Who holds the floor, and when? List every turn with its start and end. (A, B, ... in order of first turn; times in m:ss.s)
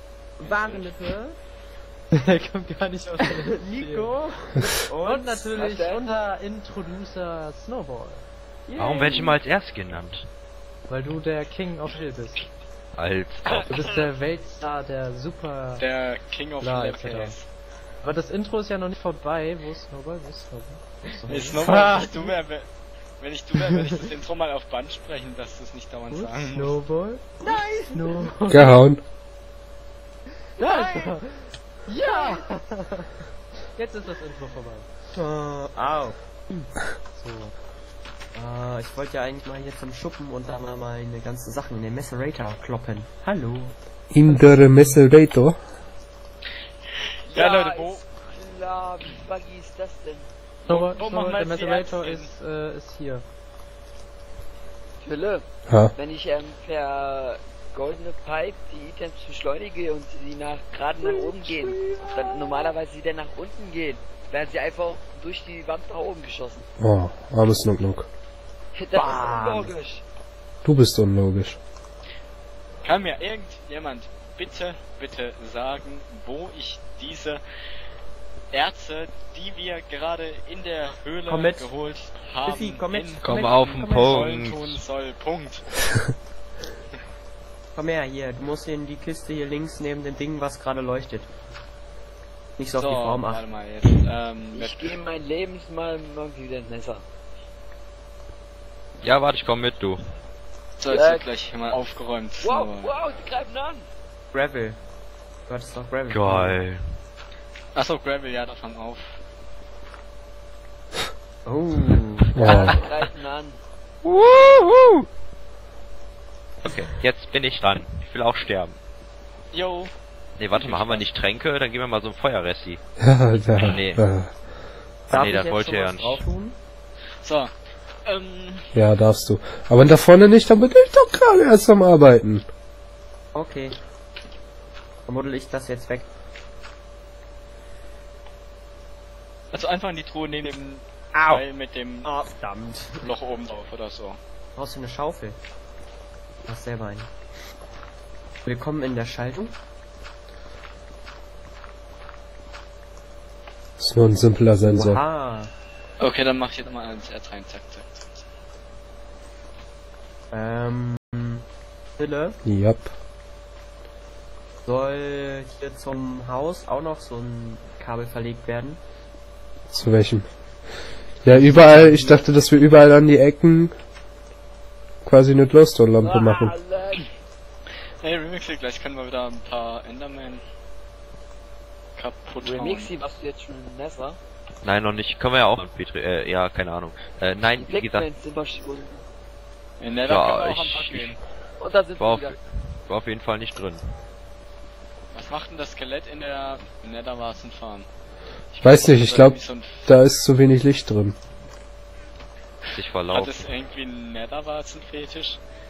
0:00.4-0:01.4 A
0:00.4-0:01.0 B
0:02.2-0:04.1 C
0:03.4-0:05.7 A
0:05.0-0:08.2 C
0:05.5-0:06.0 D
0:08.7-0:09.4 A
0:08.8-0:10.3 E
0:10.9-0:12.5 C
0:13.0-0:13.7 E
0:13.7-0:15.9 C
0:15.8-0:17.4 B
0:16.6-0:17.4 C
0:18.0-0:20.8 C
0:21.1-0:22.0 A
0:21.3-0:22.7 B
0:21.6-0:22.3 C
0:23.2-0:26.8 B
0:26.1-0:27.2 C
0:27.4-0:28.5 A
0:27.9-0:28.8 C
0:28.5-0:29.0 F
0:30.6-0:33.1 C
0:33.8-0:34.9 C
0:35.1-0:36.2 A
0:36.5-0:37.5 C
0:38.3-0:43.8 A
0:44.1-0:45.6 F
0:47.3-0:50.3 D
0:47.3-0:48.0 B
0:50.6-0:52.3 B
0:50.7-0:53.3 C
0:55.0-1:06.7 D
0:55.7-0:55.9 F
1:01.0-1:02.0 A
1:06.8-1:08.1 F
1:08.8-1:10.0 D
1:08.9-1:09.7 A
1:10.6-1:11.6 F
1:12.8-1:17.4 B
1:18.5-1:25.7 B
1:21.3-1:21.7 A
1:22.4-1:24.4 A
1:23.2-1:24.8 E
1:27.8-1:31.3 A
1:32.6-1:33.5 A
1:32.7-1:35.0 B
1:34.5-1:37.0 D
1:39.0-1:40.0 E
1:40.8-1:43.0 B
1:40.9-1:41.7 D
1:42.4-1:43.9 D
1:44.3-1:44.8 A
1:45.5-1:46.6 A
1:46.1-1:46.8 E
1:47.8-1:49.2 B
1:51.4-1:52.8 A
1:52.4-1:52.7 F
1:52.4-1:53.6 D
1:52.4-1:52.8 E
1:54.0-1:55.1 E
1:56.6-1:58.8 E
1:59.5-1:59.9 B
2:00.4-2:02.8 E
2:00.5-2:01.1 B
2:03.0-2:04.3 F
2:03.6-2:04.0 E
2:05.1-2:06.2 E
2:05.1-2:06.6 A
2:07.2-2:07.5 B
2:08.1-2:08.7 B
2:08.7-2:12.4 F
2:13.3-2:13.8 A
2:15.1-2:16.1 A
2:19.5-2:22.1 B
2:21.1-2:21.4 E
2:22.0-2:23.1 A
2:23.0-2:24.2 B
2:24.6-2:25.4 A
2:26.4-2:27.1 A
2:28.4-2:29.6 A
2:33.8-2:35.0 F
2:34.7-2:35.5 A
2:36.0-2:38.0 B
2:40.3-2:41.4 A
2:42.0-2:42.4 A
2:42.4-2:42.9 F
2:44.6-2:48.8 A
2:49.7-2:50.3 F
2:51.2-2:53.8 F
2:55.0-2:56.6 F
2:56.0-2:57.1 D
2:58.0-3:00.4 B
3:02.0-3:03.0 B
3:02.4-3:04.2 D
3:04.6-3:08.1 E
3:07.5-3:09.0 D
3:09.8-3:11.2 B
3:10.0-3:11.2 E
3:11.6-3:12.4 D
3:12.0-3:13.9 E
3:15.1-3:17.9 B
3:18.5-3:19.9 B
3:18.6-3:21.2 F
3:22.7-3:23.4 E
3:23.1-3:25.4 B